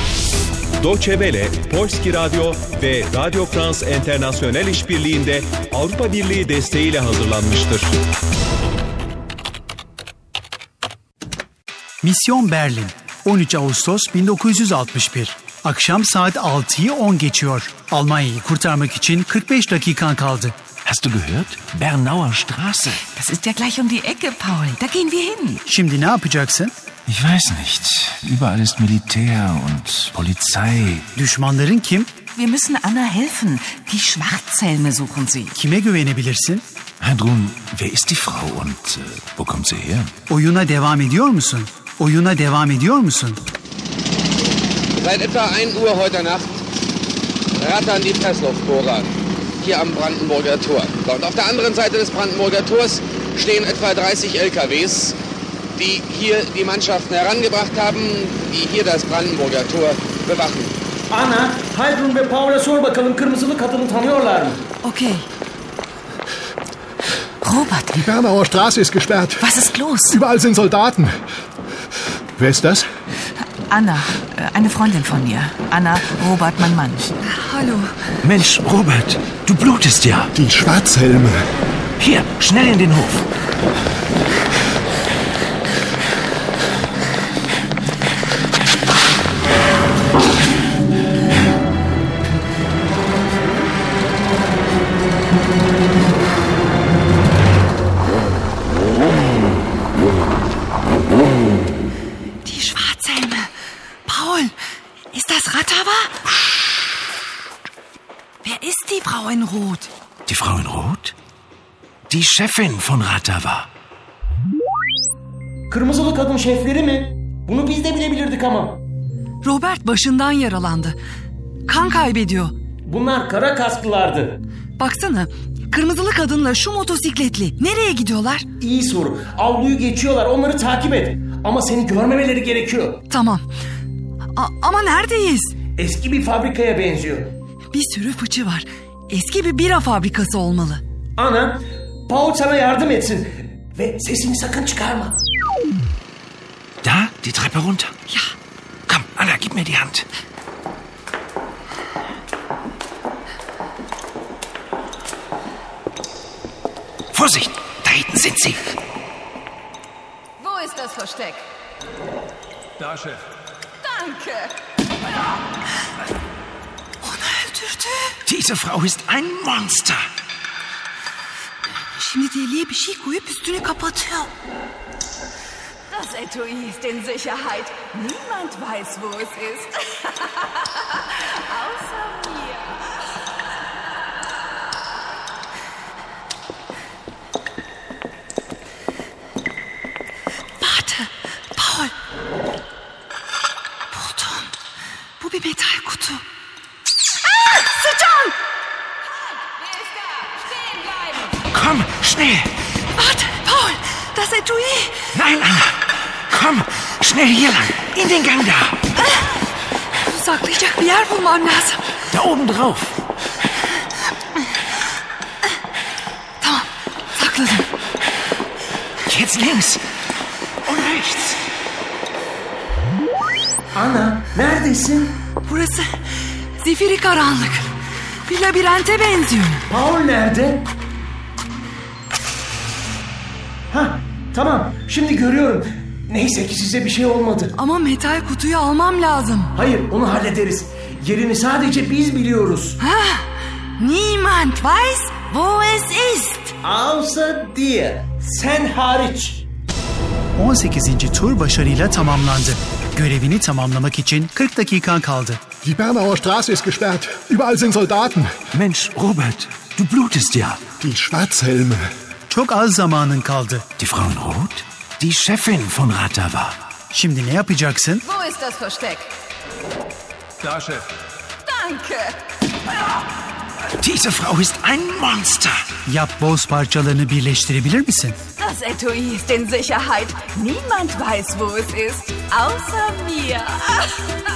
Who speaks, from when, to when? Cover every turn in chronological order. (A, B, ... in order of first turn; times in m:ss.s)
0:00.8-0:07.9 A
0:12.0-0:20.5 B
0:20.8-0:23.0 C
0:23.0-0:25.6 D
0:25.6-0:26.7 B
0:27.1-0:31.0 C
0:31.1-0:32.1 B
0:32.3-0:35.5 D
0:35.5-0:36.6 B
0:37.0-0:40.1 C
0:40.3-0:43.4 B
0:45.0-0:46.6 E
0:47.6-0:55.2 E
0:55.8-1:00.7 E
1:01.1-1:04.6 F
1:04.8-1:05.3 G
1:07.4-1:08.0 D
1:07.9-1:11.2 H
1:09.4-1:10.2 D
1:12.4-1:12.8 H
1:13.7-1:17.1 D
1:17.2-1:17.9 G
1:18.2-1:20.3 C
1:20.3-1:21.4 H
1:22.0-1:23.2 C
1:42.4-1:43.5 G
1:44.1-1:44.5 G
1:45.1-1:46.1 G
1:48.4-1:49.9 G
1:50.2-1:51.1 C
1:52.1-1:53.7 C
1:55.7-1:58.8 F
1:59.4-2:01.0 G
2:01.7-2:02.5 G
2:02.9-2:04.4 F
2:04.8-2:08.4 G
2:08.6-2:13.0 F
2:13.1-2:13.4 G
2:14.4-2:15.6 G
2:15.8-2:17.3 F
2:17.7-2:20.8 G
2:21.2-2:25.2 F
2:26.8-2:27.9 C
2:28.9-2:30.0 C
2:37.1-2:38.6 C
2:40.4-2:41.4 I
2:43.8-2:44.5 I
2:47.0-2:48.1 G
2:48.2-2:50.0 C
2:52.0-2:54.3 G
2:55.9-3:02.8 I
3:10.6-3:11.9 G
3:13.9-3:14.5 G
3:15.2-3:16.2 G
3:17.4-3:18.3 G
3:21.5-3:22.6 C
3:23.0-3:25.0 G
3:25.1-3:28.8 C
3:29.0-3:29.3 G
3:30.0-3:31.8 G
3:32.1-3:32.9 C
3:36.4-3:37.6 G
3:39.0-3:39.8 C
3:40.6-3:41.4 C
3:43.7-3:45.1 F
3:45.4-3:45.9 G
3:46.6-3:47.7 G
3:48.3-3:49.6 G
3:49.7-3:50.7 F
3:53.7-3:57.5 F
3:57.5-3:59.5 G
3:59.6-4:02.8 F
4:02.8-4:03.2 G
4:03.8-4:06.5 G
4:06.6-4:09.4 F
4:10.4-4:15.5 B
4:15.6-4:18.3 H
4:18.5-4:20.6 C
4:20.8-4:21.9 H
4:22.3-4:23.6 B
4:23.8-4:26.6 C
4:26.9-4:28.0 B
4:28.0-4:29.1 I
4:31.4-4:32.2 I
4:33.8-4:35.7 C
4:35.8-4:38.2 B
4:38.4-4:43.9 I